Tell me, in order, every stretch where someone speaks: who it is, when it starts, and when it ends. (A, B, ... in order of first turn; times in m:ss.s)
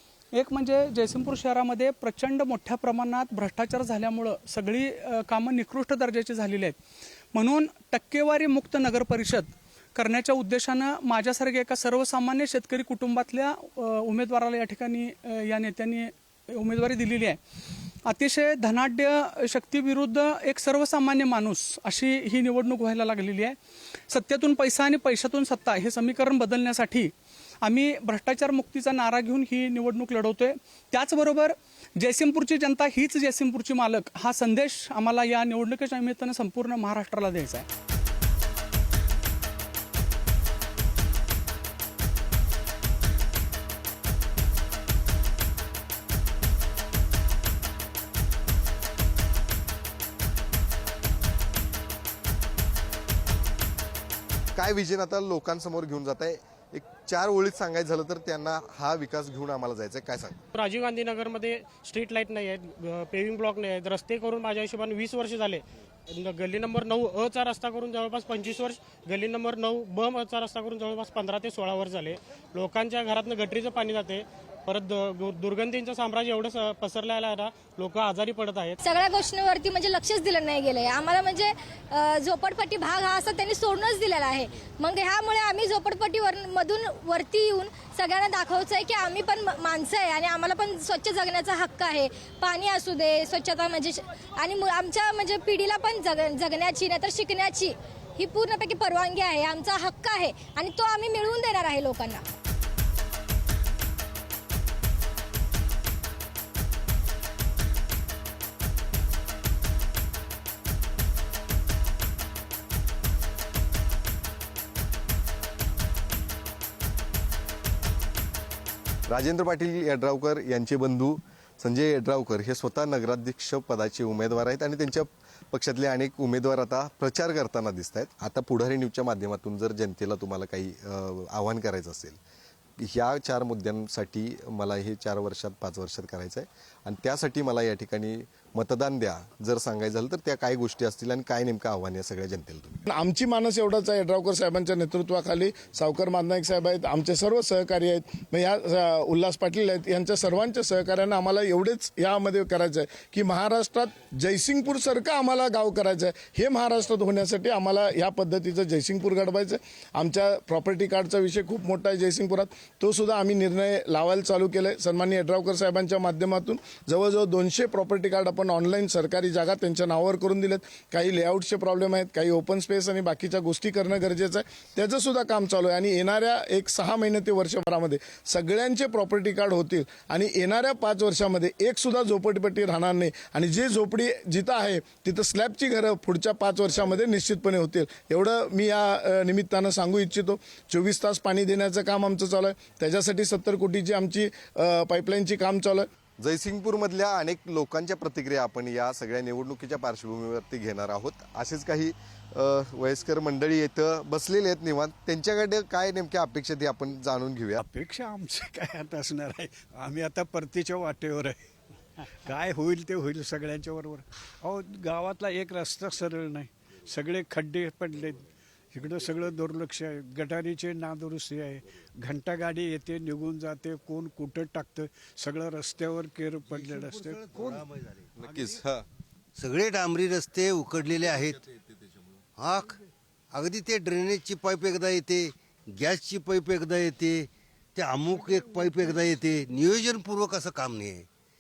0:00.3-0:06.8 A
0:07.3-0:17.4 A
0:18.1-0:23.6 A
0:24.1-0:27.1 A
0:27.6-0:37.6 A
0:54.5-1:00.4 B
1:00.5-1:18.8 C
1:18.8-1:42.2 D
1:59.1-2:12.2 B
2:12.8-2:22.8 B
2:22.9-3:15.8 E
3:16.2-3:27.6 B
3:27.6-3:31.4 F
3:32.2-3:47.6 F
3:46.4-3:48.6 G
3:48.2-3:48.8 B
3:49.4-3:51.5 G
3:52.4-3:52.8 G
3:53.3-4:01.1 G